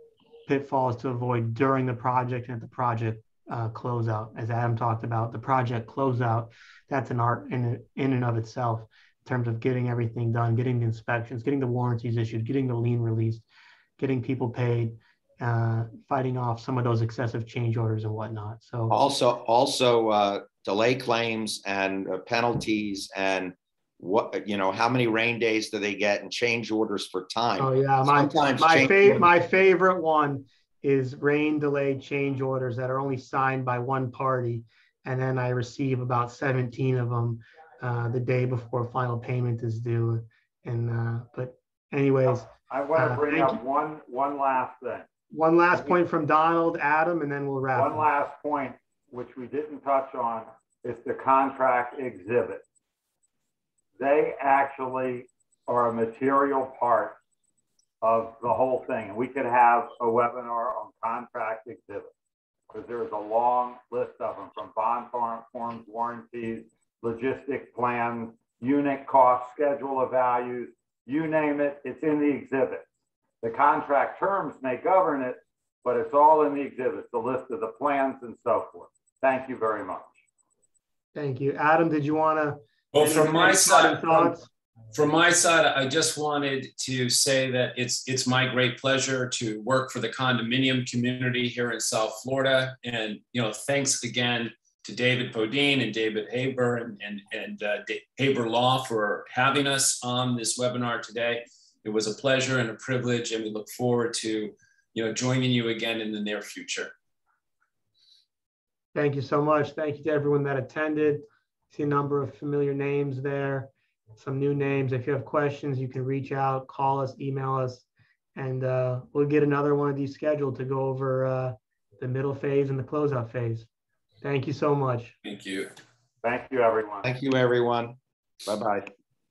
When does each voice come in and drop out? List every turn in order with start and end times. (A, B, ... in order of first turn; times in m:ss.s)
0:00.4-0:13.4 A
0:14.0-0:19.0 A
0:18.9-0:29.3 B
0:27.6-0:43.6 A
0:42.3-0:45.1 C
0:45.3-0:48.0 A
0:47.7-0:52.6 C
0:54.0-0:57.2 C
0:58.0-1:02.1 C
1:02.7-1:12.8 C
1:13.4-1:20.1 C
1:21.1-1:24.5 A
1:22.9-1:24.4 D
1:24.9-1:46.9 D
1:48.9-1:57.8 A
1:58.4-2:03.7 A
2:04.2-2:05.1 A
2:05.2-2:05.7 D
2:06.2-2:07.1 C
2:07.0-2:08.9 B